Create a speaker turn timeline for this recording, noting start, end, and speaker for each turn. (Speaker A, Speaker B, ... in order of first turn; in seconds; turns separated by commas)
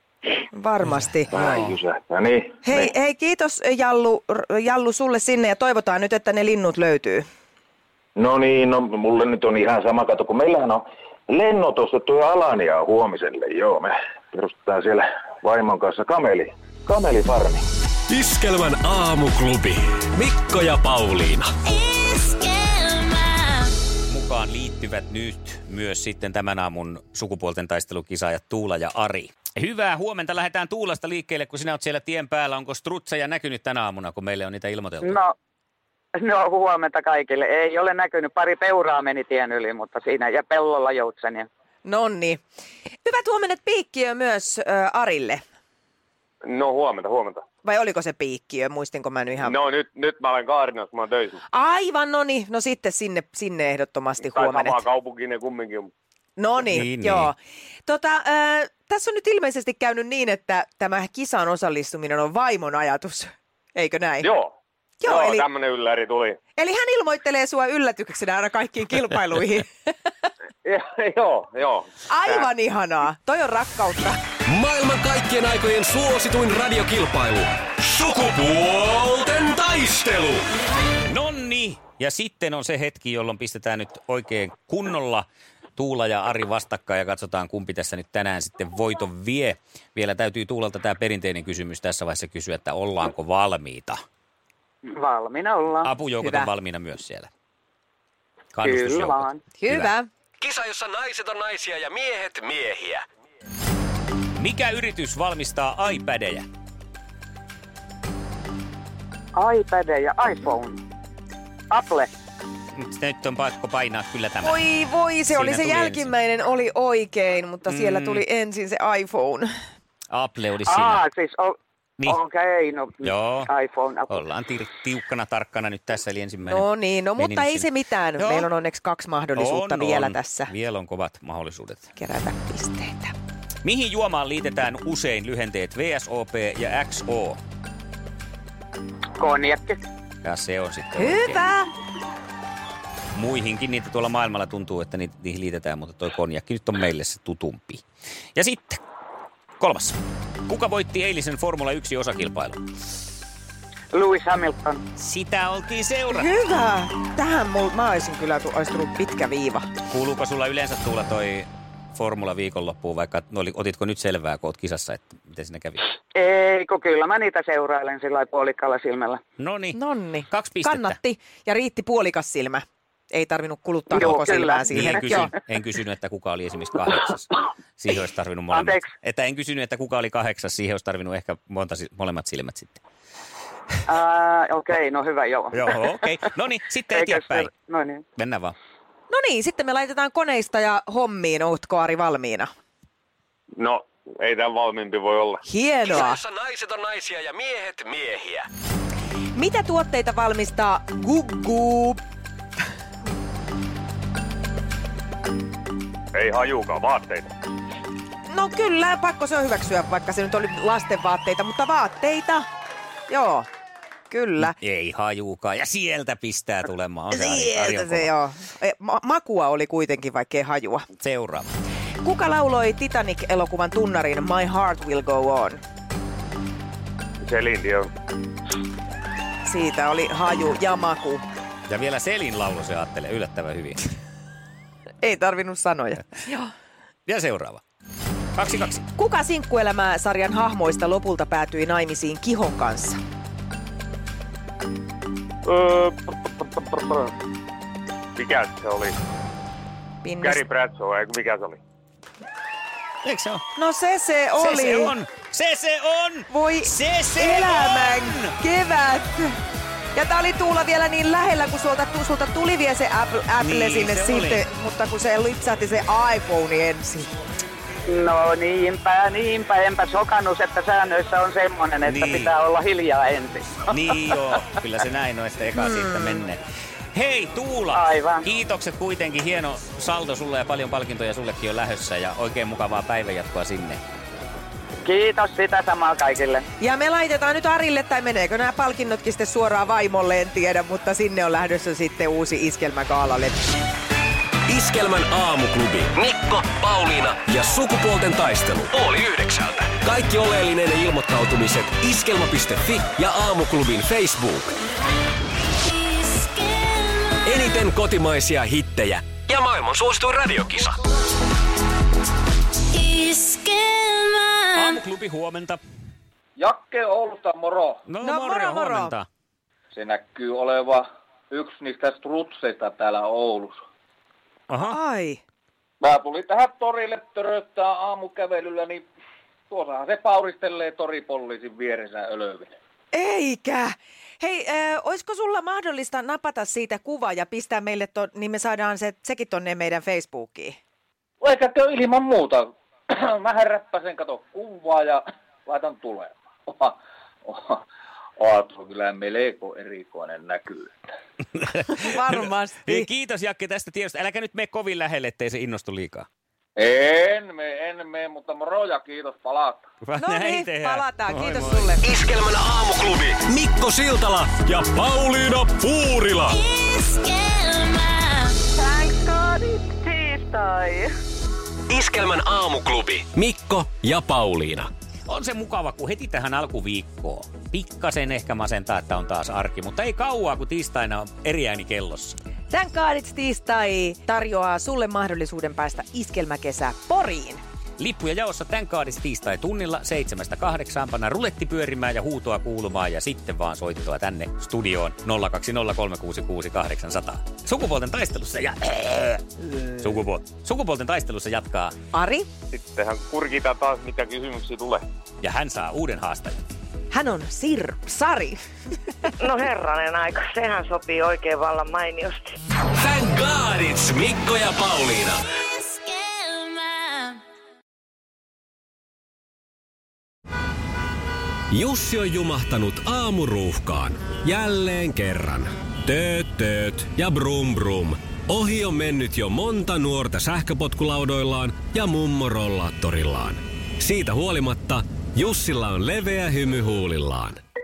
Speaker A: 0.5-1.5, Speaker B: 0.9-1.7, Speaker C: 1.3-2.9, Speaker A: 2.6-7.2, Speaker C: 8.2-17.6, Speaker D: 18.1-21.5, Speaker E: 22.3-23.7, Speaker B: 24.1-35.2, Speaker F: 35.0-35.3, Speaker F: 36.1-41.5, Speaker A: 41.8-42.4, Speaker A: 43.0-45.4, Speaker G: 46.4-47.4, Speaker A: 47.6-49.5, Speaker G: 49.4-51.4, Speaker A: 51.5-54.8, Speaker G: 54.3-55.9, Speaker A: 56.4-64.3, Speaker B: 56.7-57.3, Speaker G: 64.2-66.4, Speaker A: 65.0-65.5, Speaker A: 66.6-69.7, Speaker G: 70.6-72.5, Speaker A: 72.1-74.2, Speaker D: 74.5-80.4, Speaker B: 81.0-94.0, Speaker F: 94.8-95.9, Speaker B: 95.8-97.3, Speaker A: 96.2-96.5, Speaker B: 98.5-99.9, Speaker F: 98.6-99.4, Speaker A: 99.6-100.1, Speaker D: 100.4-103.0, Speaker B: 104.3-106.5, Speaker F: 109.3-110.8, Speaker F: 111.7-112.1, Speaker B: 112.7-114.6, Speaker A: 114.4-119.5, Speaker B: 115.3-116.1, Speaker B: 117.7-118.2, Speaker B: 120.1-121.0, Speaker F: 120.7-124.2, Speaker B: 123.0-123.5, Speaker B: 124.1-127.7, Speaker A: 126.4-130.5, Speaker B: 128.2-128.5, Speaker B: 129.3-131.9, Speaker A: 132.0-133.1, Speaker B: 133.6-137.4, Speaker F: 139.2-139.8, Speaker B: 140.2-141.5, Speaker A: 140.9-141.7, Speaker B: 143.1-147.8, Speaker B: 148.3-148.8, Speaker B: 149.6-152.6, Speaker F: 153.9-154.8, Speaker B: 155.0-156.3, Speaker A: 156.1-159.7, Speaker B: 159.9-165.9, Speaker F: 166.1-169.2, Speaker B: 169.4-169.8, Speaker A: 169.7-175.3, Speaker B: 170.3-171.0, Speaker F: 173.9-175.3, Speaker B: 174.7-182.8, Speaker F: 178.5-178.9, Speaker F: 183.8-185.7, Speaker B: 185.5-187.5, Speaker F: 186.9-188.0, Speaker B: 188.2-188.5, Speaker A: 189.1-192.5, Speaker G: 193.6-195.4, Speaker A: 195.4-196.2, Speaker D: 195.9-198.4, Speaker A: 199.3-202.0, Speaker G: 206.1-207.3, Speaker A: 208.3-212.4, Speaker A: 213.1-213.5, Speaker A: 214.1-214.5, Speaker B: 214.4-218.1, Speaker A: 217.1-220.8, Speaker B: 221.0-221.5, Speaker A: 222.0-225.6, Speaker G: 227.2-227.9, Speaker A: 229.4-231.2, Speaker B: 231.7-233.8, Speaker A: 235.0-236.5, Speaker B: 237.1-237.6, Speaker B: 238.3-238.8, Speaker A: 238.9-243.0, Speaker G: 245.4-247.1, Speaker G: 248.2-249.0, Speaker A: 250.0-250.4, Speaker G: 250.2-251.6, Speaker B: 253.0-253.4, Speaker A: 253.6-254.9, Speaker B: 254.4-258.3, Speaker A: 256.3-259.4, Speaker A: 259.9-267.1, Speaker B: 263.4-264.4, Speaker F: 267.9-273.7, Speaker B: 271.8-272.3, Speaker B: 273.7-276.4, Speaker A: 275.5-276.2, Speaker B: 276.9-283.8, Speaker F: 277.7-278.2, Speaker F: 284.8-286.4, Speaker A: 286.6-293.4, Speaker D: 294.5-304.5, Speaker D: 307.2-310.8, Speaker E: 312.7-314.3, Speaker B: 314.5-315.6, Speaker H: 316.4-317.8, Speaker B: 317.9-319.1, Speaker A: 318.0-318.9, Speaker H: 319.7-323.6, Speaker B: 324.5-324.8, Speaker A: 324.6-325.2, Speaker H: 325.8-328.9, Speaker H: 329.5-332.5, Speaker A: 332.9-340.6, Speaker H: 341.2-347.6, Speaker H: 348.2-350.7, Speaker B: 351.3-356.1, Speaker A: 351.7-352.9, Speaker H: 356.6-359.6, Speaker B: 359.8-361.8, Speaker A: 360.0-361.9, Speaker D: 361.8-366.4, Speaker E: 366.6-368.2, Speaker I: 368.7-370.9, Speaker D: 371.7-374.7, Speaker B: 375.1-382.1, Speaker A: 382.5-387.4, Speaker B: 387.8-401.8, Speaker A: 401.9-402.3, Speaker G: 402.5-404.9, Speaker B: 405.2-406.4, Speaker A: 406.9-408.4, Speaker I: 409.2-412.3, Speaker D: 412.7-415.2, Speaker E: 415.9-417.0, Speaker D: 421.5-437.4